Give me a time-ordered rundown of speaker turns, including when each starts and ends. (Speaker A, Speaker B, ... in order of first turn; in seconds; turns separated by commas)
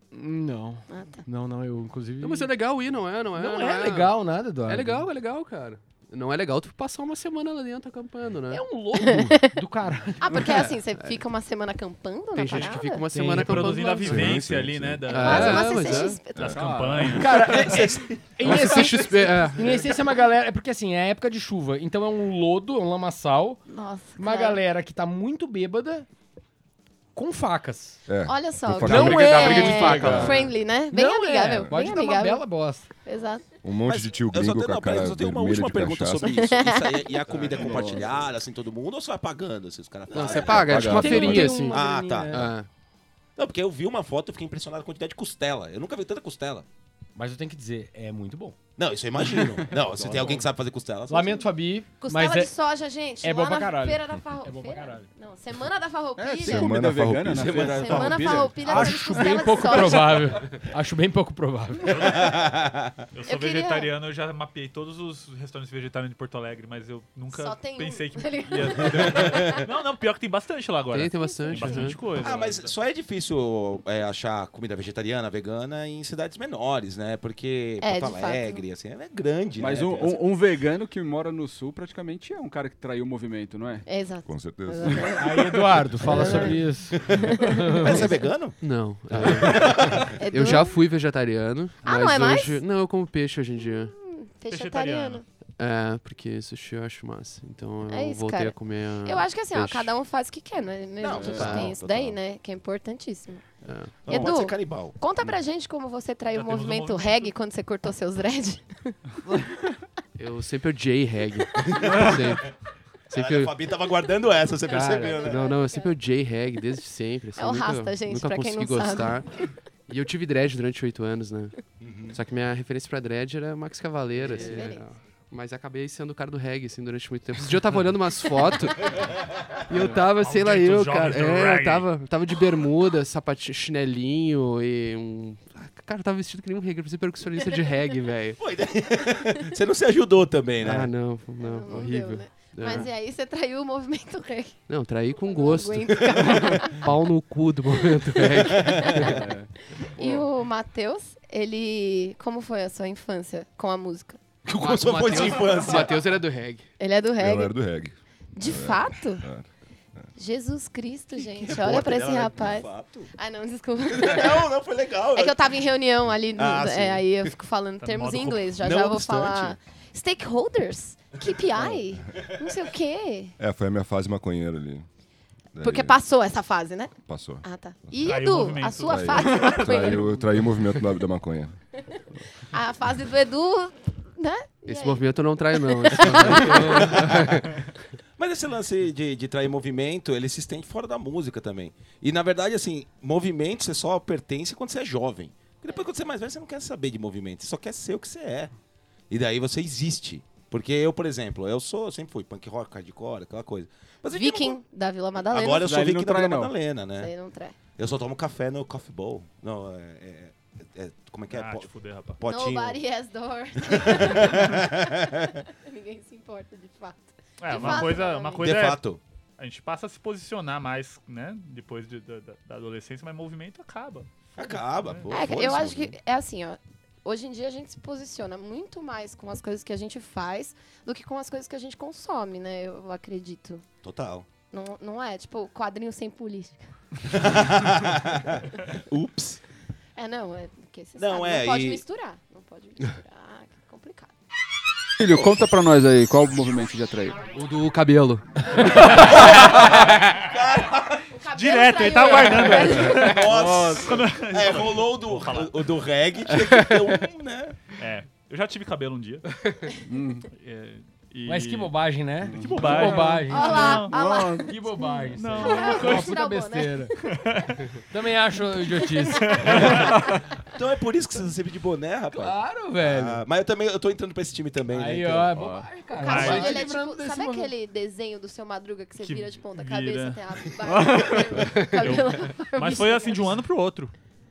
Speaker A: 0.1-2.5, Speaker B: 0.9-1.2, Speaker C: 2.2-8.7, Speaker A: 3.4-5.0, Speaker A: 8.5-10.4, Speaker B: 9.0-9.5, Speaker B: 10.2-13.0, Speaker C: 12.3-14.4, Speaker A: 12.4-14.2, Speaker D: 13.3-15.6, Speaker E: 14.0-16.6, Speaker C: 15.1-16.2, Speaker B: 15.1-16.7, Speaker F: 16.5-17.7, Speaker D: 16.5-17.8, Speaker A: 17.1-23.6, Speaker G: 17.7-18.2, Speaker C: 18.4-19.9, Speaker F: 18.4-18.8, Speaker B: 23.7-24.6, Speaker A: 24.2-26.1, Speaker A: 27.1-28.1, Speaker E: 28.1-30.4, Speaker B: 28.2-32.4, Speaker G: 28.8-30.3, Speaker A: 28.8-32.9, Speaker F: 29.3-30.1, Speaker B: 33.0-33.5, Speaker E: 33.6-36.5, Speaker G: 33.8-42.5, Speaker B: 36.3-37.1, Speaker E: 37.4-37.8, Speaker F: 37.4-38.1, Speaker C: 40.1-42.7, Speaker E: 40.4-41.5, Speaker A: 40.6-42.5, Speaker G: 43.4-46.6, Speaker A: 47.1-48.5, Speaker G: 48.8-51.4, Speaker F: 49.2-50.4, Speaker A: 51.1-52.5, Speaker B: 52.0-56.8, Speaker A: 53.2-55.1, Speaker F: 56.2-59.0, Speaker E: 56.4-58.1, Speaker G: 57.4-58.2, Speaker B: 57.5-60.3, Speaker A: 58.6-62.3, Speaker D: 61.9-62.4, Speaker G: 62.0-62.9, Speaker D: 63.1-72.7, Speaker B: 63.3-63.9, Speaker B: 67.3-69.6, Speaker C: 70.9-72.0, Speaker B: 71.2-72.0, Speaker G: 72.1-80.2, Speaker B: 77.8-78.6, Speaker F: 79.6-83.8, Speaker B: 83.8-88.1, Speaker E: 84.2-85.2, Speaker A: 85.1-88.1, Speaker E: 86.2-86.5, Speaker G: 87.7-88.6, Speaker C: 88.6-93.9, Speaker G: 89.2-90.0, Speaker B: 90.2-90.8, Speaker B: 91.8-92.6, Speaker B: 93.7-95.2, Speaker D: 94.5-95.2, Speaker C: 95.6-99.9, Speaker B: 97.9-103.5, Speaker G: 101.0-102.2, Speaker C: 101.2-101.7, Speaker C: 103.6-104.1, Speaker G: 104.0-105.0, Speaker B: 104.0-109.0, Speaker D: 106.3-107.3, Speaker C: 110.2-112.5, Speaker G: 111.6-112.5, Speaker G: 113.1-115.4, Speaker C: 113.1-113.5, Speaker B: 114.7-115.9, Speaker C: 114.7-121.5, Speaker B: 117.3-119.5, Speaker G: 121.8-122.2, Speaker C: 122.1-129.1, Speaker B: 124.2-124.8, Speaker C: 129.7-138.4, Speaker F: 129.7-130.0, Speaker D: 130.1-131.9, Speaker B: 137.4-137.6, Speaker G: 138.4-140.9, Speaker C: 140.6-142.9, Speaker B: 141.4-146.9, Speaker C: 144.7-149.2, Speaker G: 146.2-146.6, Speaker B: 147.8-149.2, Speaker G: 148.6-149.1, Speaker F: 149.0-150.2, Speaker B: 149.7-154.2, Speaker G: 154.4-155.9, Speaker C: 155.1-156.7, Speaker B: 156.8-157.5, Speaker E: 157.2-159.5, Speaker B: 158.3-159.3, Speaker B: 160.2-164.4, Speaker G: 161.1-163.1, Speaker G: 163.9-165.3, Speaker B: 165.1-173.3, Speaker G: 166.3-167.3, Speaker D: 167.8-168.5, Speaker G: 168.6-169.6, Speaker E: 173.4-174.8, Speaker E: 175.5-176.0, Speaker B: 175.6-180.2, Speaker E: 177.1-177.4, Speaker D: 178.0-179.9, Speaker E: 178.8-181.6, Speaker B: 182.5-187.1, Speaker C: 184.7-187.6, Speaker G: 186.8-187.1, Speaker G: 188.2-198.5, Speaker G: 199.1-204.6, Speaker B: 204.1-205.8, Speaker G: 205.3-207.1, Speaker F: 205.6-206.5, Speaker B: 207.0-207.6, Speaker G: 207.8-212.8, Speaker D: 211.3-212.2, Speaker B: 212.2-218.4, Speaker G: 213.7-215.3, Speaker D: 217.4-218.8, Speaker G: 217.5-219.0, Speaker D: 219.4-225.1, Speaker G: 224.4-225.9, Speaker B: 225.1-233.6, Speaker G: 233.8-234.2, Speaker B: 234.5-236.6, Speaker G: 237.1-239.4, Speaker B: 239.9-244.1, Speaker G: 241.0-241.8, Speaker F: 245.0-247.2, Speaker C: 247.3-248.9, Speaker F: 248.6-249.5, Speaker G: 248.8-251.1, Speaker B: 251.1-253.2, Speaker D: 251.3-255.6, Speaker F: 252.6-254.0, Speaker G: 252.9-257.6, Speaker D: 257.8-259.3, Speaker F: 259.9-260.3, Speaker D: 260.3-261.7, Speaker A: 261.2-263.8, Speaker F: 262.2-264.5, Speaker D: 262.4-263.9, Speaker B: 263.3-267.1, Speaker A: 264.4-266.9, Speaker D: 265.1-266.1, Speaker D: 267.0-267.6, Speaker A: 267.8-269.7, Speaker B: 268.8-269.6, Speaker D: 269.2-270.1, Speaker F: 269.7-270.1, Speaker G: 270.5-275.3, Speaker A: 272.1-273.2, Speaker A: 274.7-277.5, Speaker F: 275.3-275.8, Speaker B: 276.0-283.3, Speaker D: 276.0-276.6, Speaker D: 279.0-280.2, Speaker F: 280.6-281.4, Speaker D: 280.7-283.9